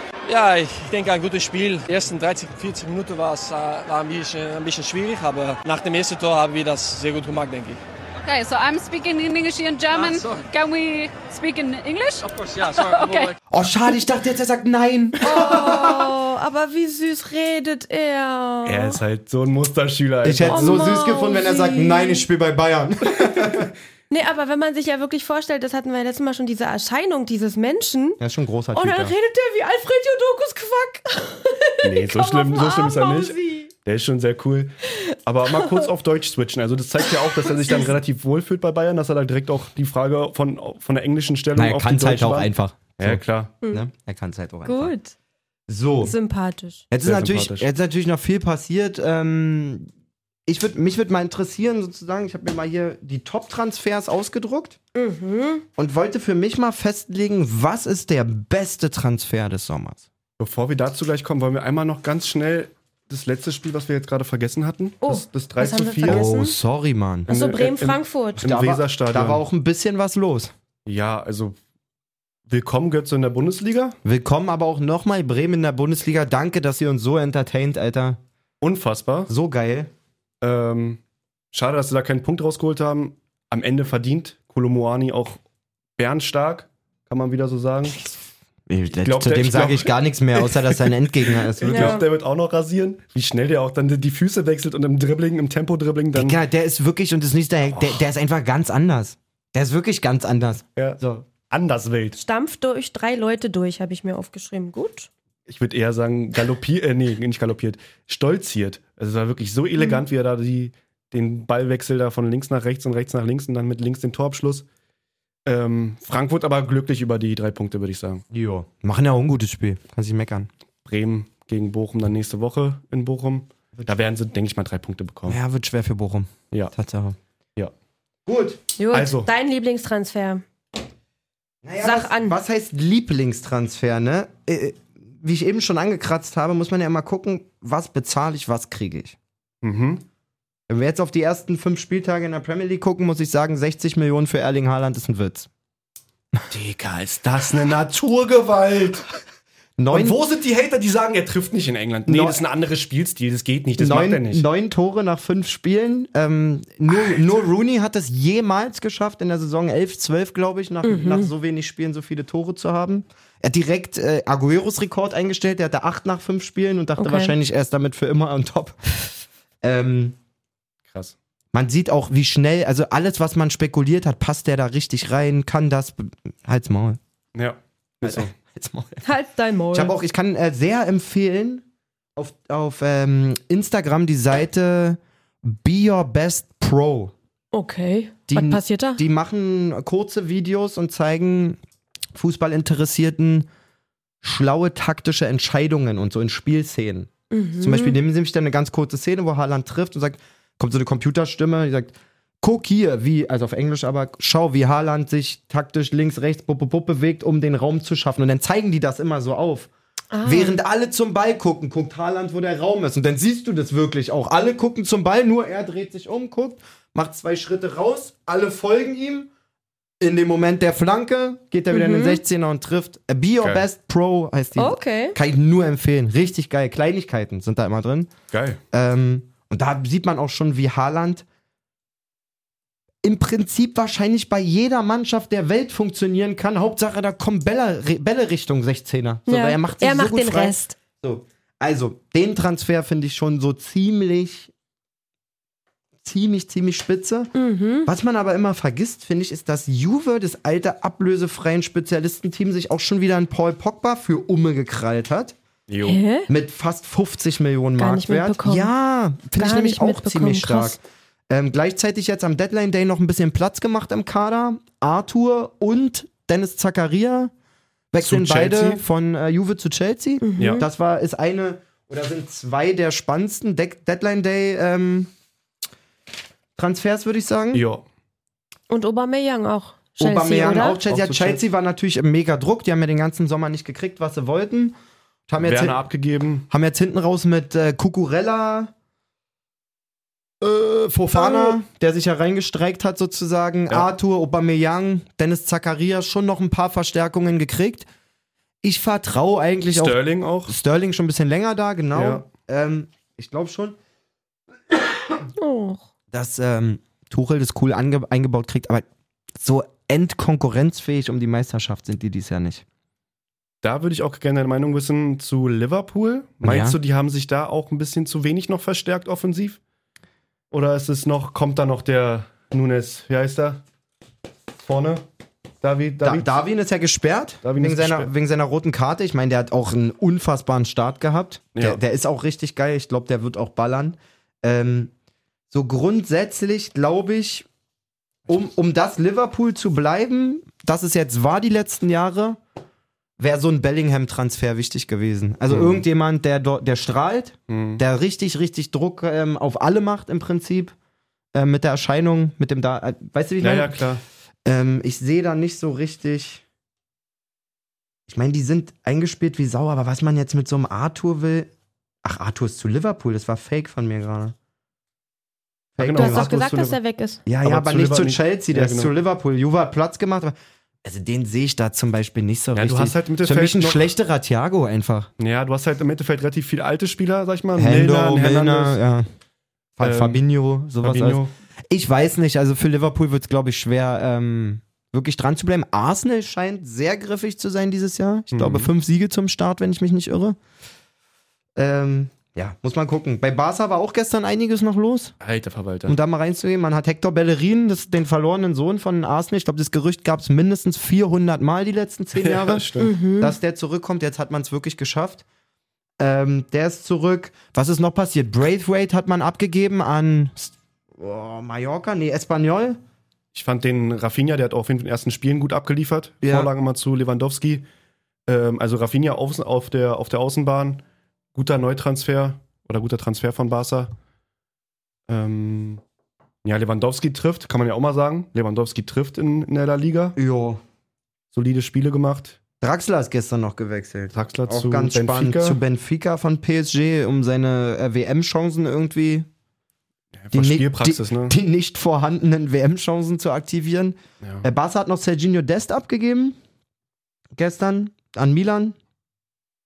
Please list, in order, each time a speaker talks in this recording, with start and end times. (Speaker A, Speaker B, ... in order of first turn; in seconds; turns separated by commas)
Speaker A: 0.2-7.8, Speaker B: 8.2-13.3, Speaker A: 10.0-10.4, Speaker A: 12.3-13.3, Speaker C: 13.5-16.1, Speaker D: 15.2-19.0, Speaker E: 18.6-21.0, Speaker C: 20.2-23.7, Speaker D: 20.5-22.2, Speaker D: 24.1-28.2, Speaker C: 28.2-29.1, Speaker D: 28.7-33.7, Speaker E: 31.8-43.5, Speaker C: 41.5-44.9, Speaker D: 44.6-45.1, Speaker C: 45.7-46.1, Speaker D: 46.0-46.8, Speaker C: 46.9-49.9, Speaker E: 47.0-47.7, Speaker C: 50.5-54.8, Speaker D: 54.9-55.6, Speaker C: 55.8-60.0, Speaker E: 60.4-66.2, Speaker D: 65.0-66.5, Speaker C: 66.0-67.3, Speaker D: 67.3-68.4, Speaker E: 67.3-69.4, Speaker C: 68.4-70.5, Speaker E: 70.8-71.5, Speaker E: 72.5-74.0, Speaker C: 74.0-78.2, Speaker E: 78.6-79.3, Speaker C: 79.3-79.9, Speaker E: 80.4-81.0, Speaker E: 81.5-85.4, Speaker E: 86.0-88.0, Speaker C: 88.7-92.0, Speaker E: 89.0-96.4, Speaker D: 91.6-92.0, Speaker C: 96.1-101.2, Speaker E: 100.8-102.2, Speaker D: 102.2-105.1, Speaker E: 105.5-114.7, Speaker E: 115.5-118.2, Speaker C: 118.3-120.5, Speaker E: 120.8-125.4, Speaker C: 125.2-127.2, Speaker C: 128.2-128.6, Speaker D: 128.8-130.4, Speaker E: 128.9-129.3, Speaker C: 131.6-139.2, Speaker D: 131.8-132.4, Speaker E: 139.6-140.0, Speaker C: 140.7-145.5, Speaker E: 146.5-149.1, Speaker C: 149.8-150.2, Speaker E: 149.9-154.4, Speaker C: 152.1-152.4, Speaker C: 153.8-168.9, Speaker D: 160.8-161.3, Speaker D: 167.0-167.3, Speaker C: 169.6-170.2, Speaker E: 170.9-171.1, Speaker C: 171.5-177.0, Speaker E: 177.3-178.3, Speaker C: 178.0-179.1, Speaker D: 179.0-179.9, Speaker C: 179.7-181.6, Speaker C: 182.2-187.1, Speaker D: 187.5-189.0, Speaker C: 188.3-191.6, Speaker C: 192.1-193.5, Speaker C: 194.2-209.7, Speaker D: 197.3-198.0, Speaker D: 210.1-210.6, Speaker C: 210.2-219.3, Speaker C: 220.0-228.1, Speaker D: 221.7-222.2, Speaker D: 224.6-225.2, Speaker E: 228.3-228.6, Speaker C: 228.7-231.2, Speaker C: 233.0-244.5, Speaker D: 239.3-240.7, Speaker C: 246.0-247.3, Speaker D: 247.3-247.9, Speaker C: 247.8-255.3, Speaker E: 255.7-256.0, Speaker D: 255.8-256.3, Speaker C: 256.3-267.3, Speaker D: 257.8-258.7, Speaker D: 259.4-260.8, Speaker C: 267.9-275.1, Speaker E: 268.0-268.8, Speaker D: 270.2-270.6, Speaker E: 270.4-270.6, Speaker C: 276.6-277.6, Speaker E: 277.5-277.8, Speaker D: 278.7-280.8, Speaker C: 280.0-284.7, Speaker E: 280.9-281.4, Speaker C: 285.3-285.8, Speaker E: 285.4-286.4, Speaker C: 286.5-288.7, Speaker C: 290.4-297.9, Speaker E: 291.2-291.5, Speaker C: 298.6-303.8, Speaker E: 299.7-300.5, Speaker E: 301.9-302.2, Speaker D: 305.4-305.8, Speaker C: 306.1-312.6, Speaker E: 313.6-319.6, Speaker C: 316.4-316.8, Speaker E: 320.5-323.6, Speaker E: 324.6-325.0, Speaker E: 325.6-326.3, Speaker C: 326.0-334.9, Speaker E: 327.4-328.1, Speaker C: 335.5-337.5, Speaker C: 338.3-342.4, Speaker C: 343.2-350.7, Speaker E: 345.5-345.8, Speaker E: 347.5-347.8, Speaker C: 351.3-353.8, Speaker E: 353.4-354.0, Speaker C: 354.4-356.4, Speaker C: 358.1-361.5, Speaker C: 362.0-364.3, Speaker C: 365.8-366.3, Speaker E: 365.8-366.8, Speaker D: 365.9-367.2, Speaker C: 367.2-375.1, Speaker E: 367.4-368.9, Speaker E: 372.5-373.9, Speaker E: 375.2-378.8, Speaker C: 377.6-379.1, Speaker C: 379.8-390.4, Speaker E: 379.8-380.2, Speaker E: 380.8-381.3, Speaker E: 388.3-388.7, Speaker C: 391.6-395.1, Speaker E: 395.2-396.0, Speaker C: 395.9-405.2, Speaker E: 402.1-402.9, Speaker D: 402.8-403.3, Speaker C: 406.0-412.8, Speaker E: 413.3-417.6, Speaker C: 416.2-416.5, Speaker E: 418.3-420.8, Speaker E: 421.3-423.9, Speaker E: 425.1-425.8, Speaker E: 426.4-430.1, Speaker C: 430.1-430.6, Speaker E: 431.3-432.4, Speaker C: 432.6-439.3, Speaker E: 434.1-435.6, Speaker E: 440.2-441.4, Speaker C: 440.3-446.4, Speaker C: 447.3-448.8